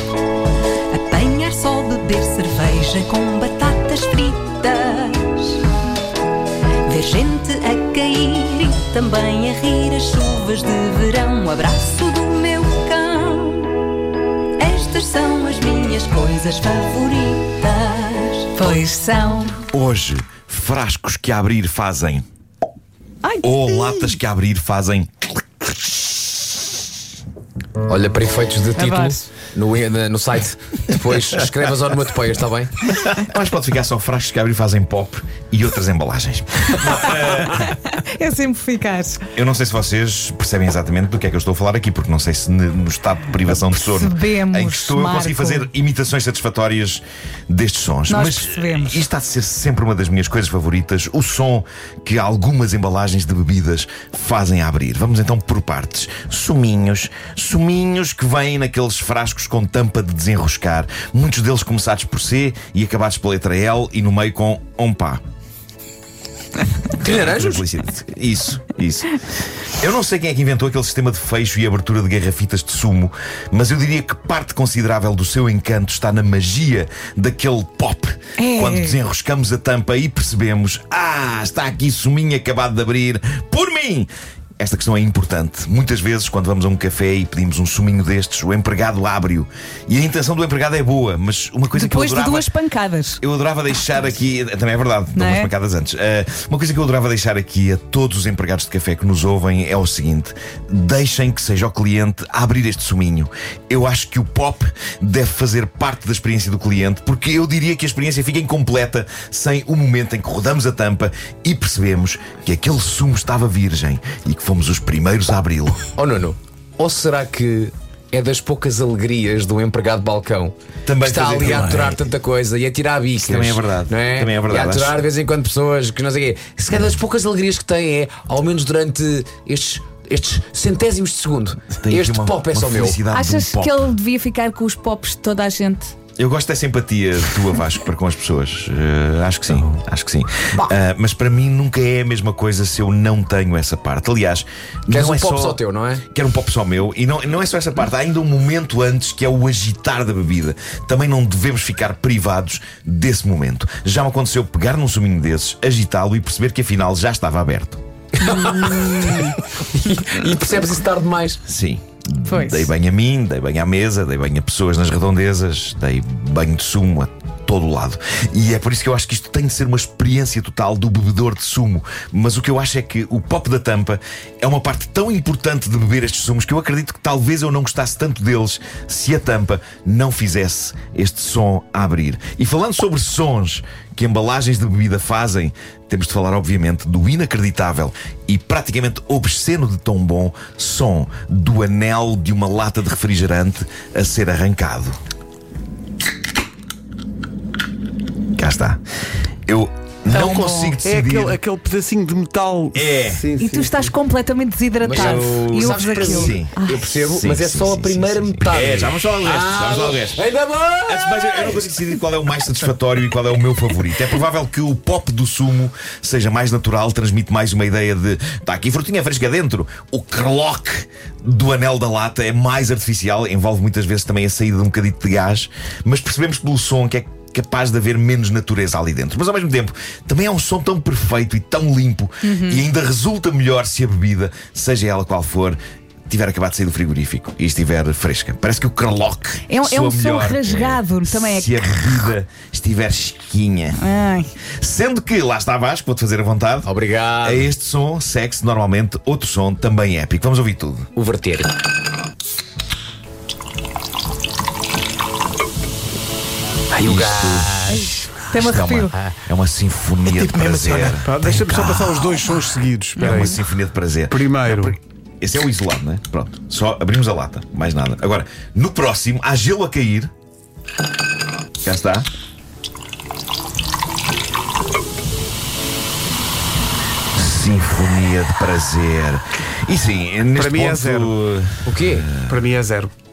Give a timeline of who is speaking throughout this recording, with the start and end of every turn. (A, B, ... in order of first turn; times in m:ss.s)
0:00.9-0:05.6 A
0:06.8-0:13.7 A
0:14.6-0:19.5 A
0:18.7-0:19.5 B
0:19.7-0:22.2 C
0:23.2-0:24.2 B
0:23.4-0:25.3 C
0:27.9-0:32.8 D
0:28.8-0:29.2 B
0:32.9-0:37.7 C
0:37.9-0:39.2 B
0:39.3-1:05.2 C
0:43.6-0:45.7 B
0:48.1-0:49.0 B
1:07.0-1:07.6 D
1:07.0-1:32.5 C
1:18.4-1:19.0 B
1:31.7-1:33.2 B
1:33.2-1:55.9 C
1:35.1-1:35.5 B
1:56.0-2:13.0 D
2:00.8-2:02.0 C
2:03.2-2:05.0 C
2:11.7-2:13.9 C
2:13.1-2:15.9 B
2:16.2-2:37.8 C
2:24.9-2:26.0 D
2:38.2-2:41.4 D
2:38.2-2:39.3 B
2:41.4-3:15.0 C
2:42.3-2:42.7 B
3:18.4-3:18.8 C
3:19.5-3:21.4 C
3:20.1-3:20.8 B
3:20.8-3:24.0 E
3:22.7-3:23.2 C
3:23.4-3:26.8 B
3:24.8-3:31.8 D
3:25.6-3:30.2 C
3:30.8-3:55.6 C
3:52.2-3:52.7 B
3:56.1-4:03.8 C
3:59.5-4:02.1 B
4:03.8-4:04.3 B
4:04.6-4:06.7 C
4:06.6-4:07.5 D
4:07.2-4:10.9 C
4:10.9-4:11.5 D
4:16.7-4:18.1 D
4:16.8-4:17.7 C
4:17.8-4:18.9 B
4:18.3-4:22.4 C
4:20.1-4:23.4 E
4:23.0-4:30.1 C
4:24.1-4:24.8 E
4:31.6-4:32.1 C
4:37.1-4:42.4 C
4:40.3-4:41.1 E
4:41.6-4:42.1 D
4:42.2-4:42.9 E